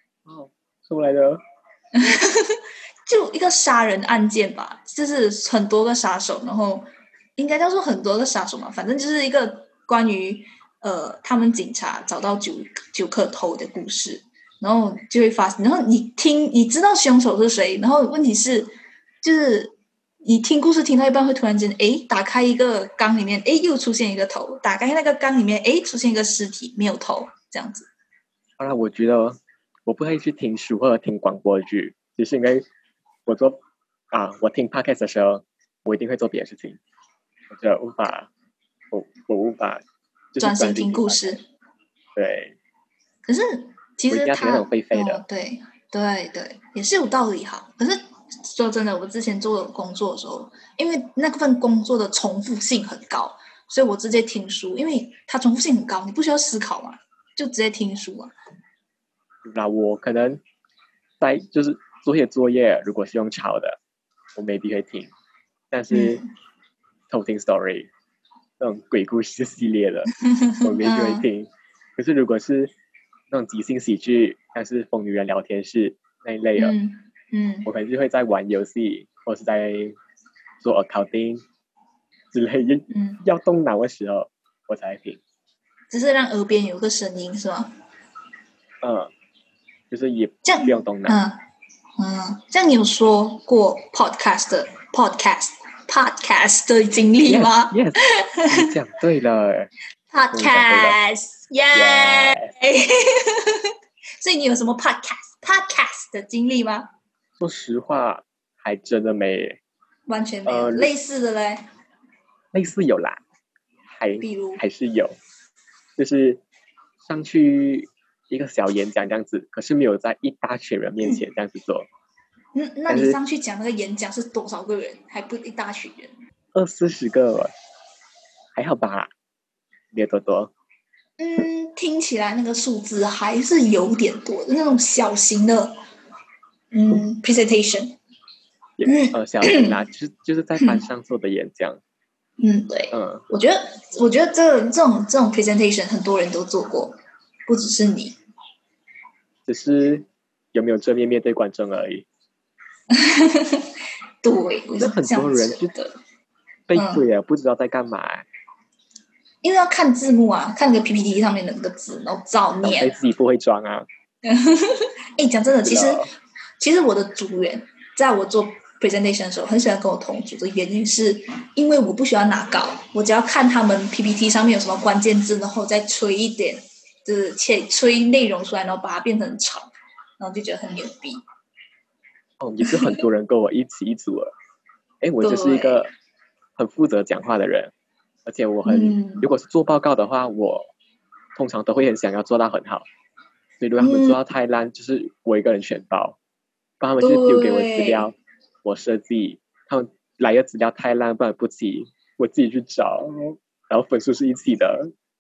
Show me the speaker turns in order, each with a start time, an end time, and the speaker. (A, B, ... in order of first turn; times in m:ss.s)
0:00.3-0:01.4 A
0:02.0-0:18.7 B
0:19.2-0:27.9 B
0:28.6-0:32.7 A
0:33.3-0:33.6 A
0:34.1-0:36.8 A
0:37.5-0:38.3 A
0:38.9-0:39.8 A
0:40.3-0:41.4 A
0:40.4-0:41.4 B
0:42.2-0:42.6 A
0:43.2-0:58.3 B
0:44.1-0:45.2 A
0:59.4-1:00.4 A
1:01.2-1:03.8 A
1:04.4-1:05.1 A
1:05.7-1:06.2 A
1:05.9-1:06.3 B
1:07.1-1:07.9 A
1:08.6-1:10.1 A
1:10.4-1:11.3 B
1:10.6-1:12.7 A
1:13.3-1:16.8 A
1:16.6-1:17.7 B
1:17.7-1:20.0 A
1:20.6-1:21.4 A
1:22.3-1:25.2 A
1:22.9-1:23.2 B
1:25.9-1:27.7 B
1:28.8-1:29.1 A
1:29.9-1:31.2 A
1:30.4-1:31.4 B
1:32.0-1:37.8 B
1:37.2-1:38.0 A
1:38.4-1:38.7 B
1:38.5-1:39.7 A
1:40.1-1:43.7 B
1:40.3-1:41.0 A
1:41.7-1:42.5 A
1:44.2-1:46.9 B
1:47.4-1:49.6 A
1:50.1-1:51.6 B
1:50.5-1:50.9 A
1:52.5-1:53.2 A
1:53.9-1:55.2 A
1:54.2-1:54.6 B
1:56.0-1:56.4 A
1:57.0-2:01.9 A
2:01.0-2:01.3 B
2:02.6-2:06.1 B
2:02.9-2:03.2 A
2:06.6-2:07.5 A
2:08.6-2:09.1 A
2:09.9-2:10.5 A
2:11.2-2:15.8 B
2:16.7-2:18.0 B
2:18.8-2:21.8 A
2:18.8-2:19.7 B
2:22.4-2:28.2 B
2:22.9-2:23.2 A
2:29.5-2:32.1 A
2:32.9-2:33.7 B
2:34.2-2:36.0 B
2:34.8-2:35.7 A
2:36.7-2:38.3 A
2:36.7-2:37.0 B
2:39.4-2:43.0 B
2:42.6-2:43.9 A
2:44.2-2:46.0 B
2:45.6-2:46.1 A
2:46.6-3:01.2 B
3:02.4-3:04.3 A
3:05.0-3:05.9 A
3:05.2-3:05.8 B
3:06.6-3:07.7 A
3:08.3-3:10.7 A
3:08.6-3:09.3 B
3:11.4-3:12.9 A
3:13.6-3:16.2 A
3:13.8-3:14.2 B
3:16.8-3:24.9 A
3:17.0-3:18.1 B